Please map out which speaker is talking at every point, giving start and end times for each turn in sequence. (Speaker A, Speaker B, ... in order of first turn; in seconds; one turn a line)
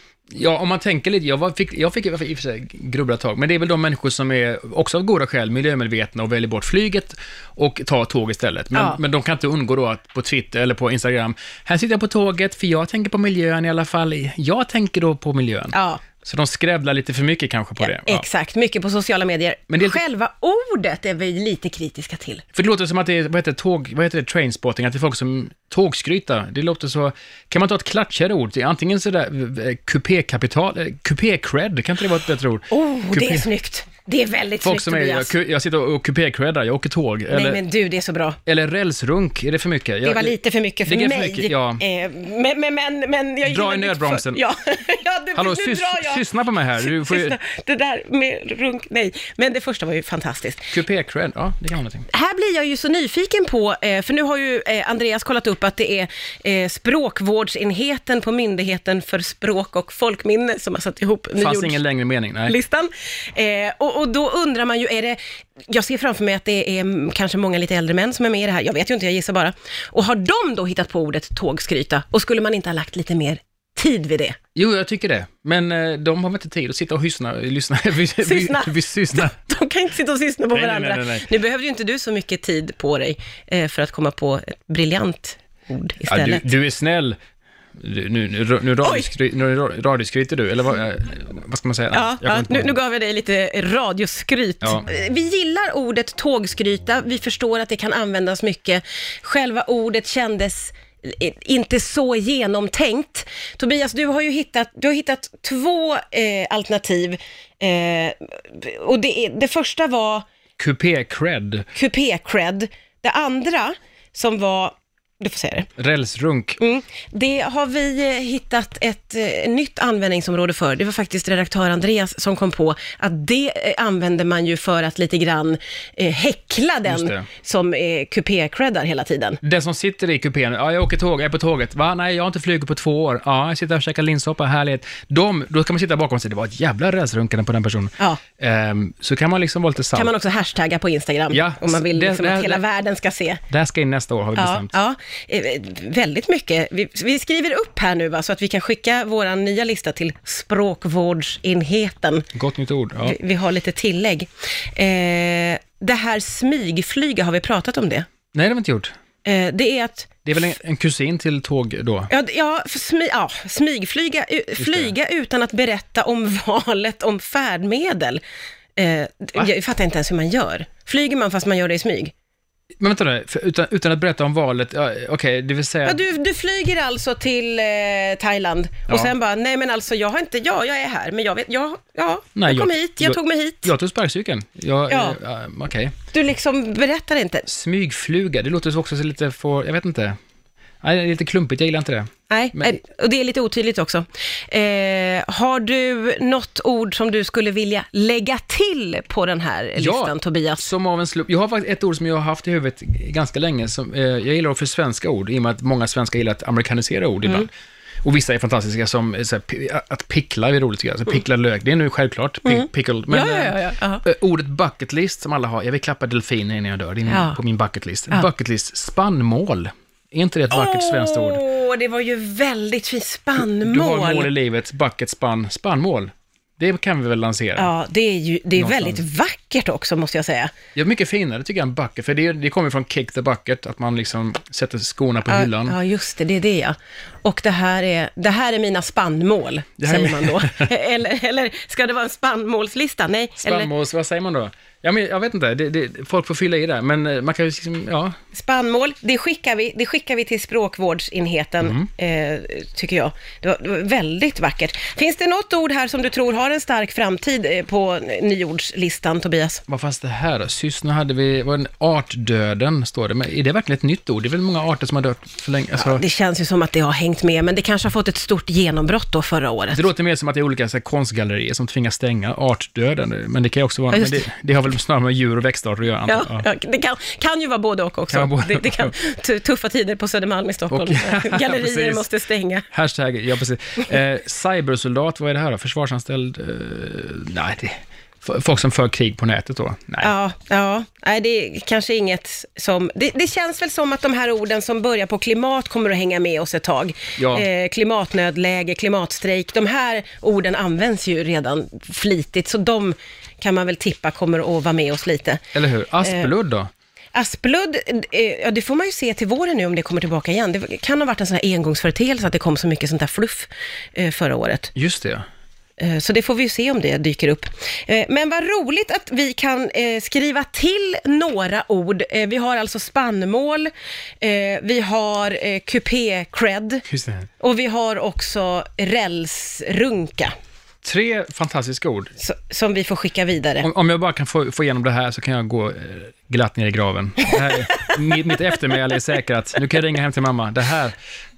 Speaker A: 0.3-18.2
Speaker B: 8.7-9.0
Speaker B: 15.7-16.0
Speaker B: 17.8-22.4
Speaker A: 19.7-20.0
Speaker A: 22.5-33.5
Speaker B: 32.7-35.3
Speaker A: 34.6-37.6
Speaker B: 37.3-38.4
Speaker A: 38.5-40.3
Speaker B: 40.0-46.2
Speaker A: 40.9-41.8
Speaker A: 43.4-44.4
Speaker A: 45.3-47.4
Speaker B: 46.8-50.7
Speaker A: 50.7-52.1
Speaker B: 52.1-61.8
Speaker A: 61.4-62.5
Speaker B: 62.5-74.4
Speaker A: 74.5-79.3
Speaker B: 78.2-86.4
Speaker A: 80.5-81.3
Speaker A: 86.1-87.2
Speaker A: 87.8-92.8
Speaker B: 88.8-89.1
Speaker B: 91.9-110.2
Speaker A: 110.6-111.7
Speaker B: 111.7-115.7
Speaker A: 115.8-116.6
Speaker B: 116.6-129.4
Speaker A: 126.8-127.2
Speaker A: 129.4-140.1
Speaker B: 139.9-143.4
Speaker A: 141.3-142.6
Speaker A: 143.5-144.7
Speaker B: 144.4-152.3
Speaker A: 152.3-153.2
Speaker B: 153.0-158.1
Speaker A: 158.3-158.9
Speaker B: 159.2-160.4
Speaker A: 160.2-162.1
Speaker B: 162.1-168.2
Speaker A: 164.6-164.9
Speaker B: 168.8-172.1
Speaker A: 172.8-176.0
Speaker B: 175.8-183.7
Speaker A: 182.3-185.9
Speaker B: 184.9-185.2
Speaker B: 186.1-187.4
Speaker A: 187.5-190.2
Speaker A: 190.8-192.8
Speaker B: 192.3-200.6
Speaker A: 199.8-207.5
Speaker A: 208.0-221.4
Speaker B: 212.4-214.0
Speaker B: 217.1-217.4
Speaker B: 220.5-224.3
Speaker A: 223.4-227.7
Speaker B: 227.6-230.5
Speaker A: 228.6-229.0
Speaker A: 230.7-235.8
Speaker B: 235.3-243.7
Speaker A: 239.8-240.7
Speaker A: 243.4-248.2
Speaker B: 248.3-259.6
Speaker A: 251.6-251.9
Speaker A: 259.7-266.0
Speaker B: 265.8-269.8
Speaker A: 269.7-276.4
Speaker B: 273.9-274.2
Speaker B: 276.1-282.6
Speaker A: 278.1-278.9
Speaker A: 280.7-282.1
Speaker A: 282.7-290.1
Speaker B: 290.0-305.4
Speaker A: 297.2-297.5
Speaker A: 305.5-306.7
Speaker B: 306.0-306.3
Speaker B: 307.1-314.7
Speaker A: 314.7-315.2
Speaker B: 315.8-323.7
Speaker B: 324.2-326.8
Speaker A: 326.9-327.3
Speaker B: 327.4-330.3
Speaker A: 330.8-332.1
Speaker B: 332.2-333.7
Speaker A: 333.6-340.9